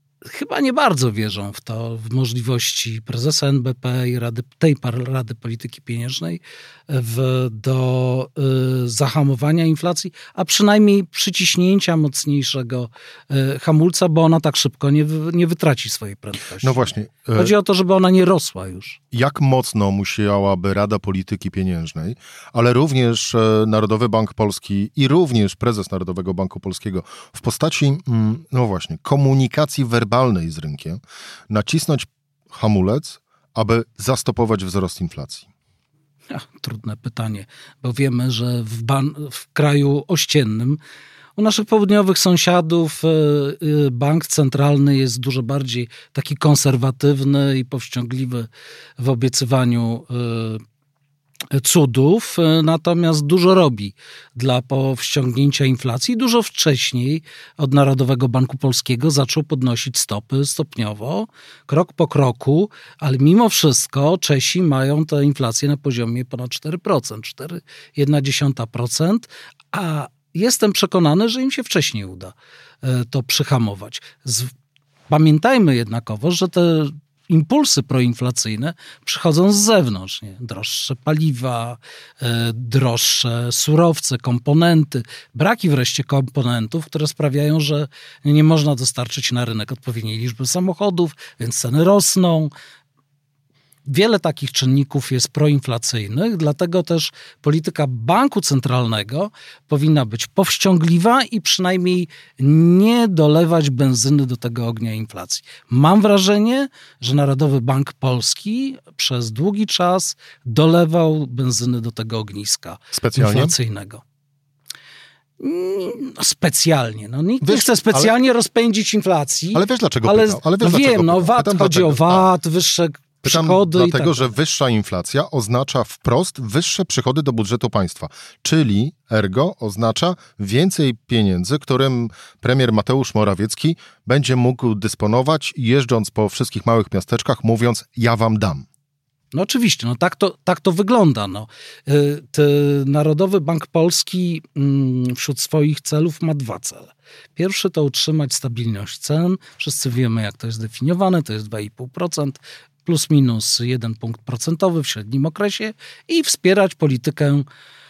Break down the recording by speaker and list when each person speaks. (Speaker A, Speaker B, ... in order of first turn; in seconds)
Speaker A: 0.2-19.0, 36.3-40.8, 41.4-50.6, 51.5-74.5, 75.1-92.5, 93.9-114.0, 115.4-124.3, 139.3-157.5
Speaker B: 16.6-17.5, 19.1-35.5, 112.9-113.5, 117.4-118.1, 119.5-122.3, 123.2-138.7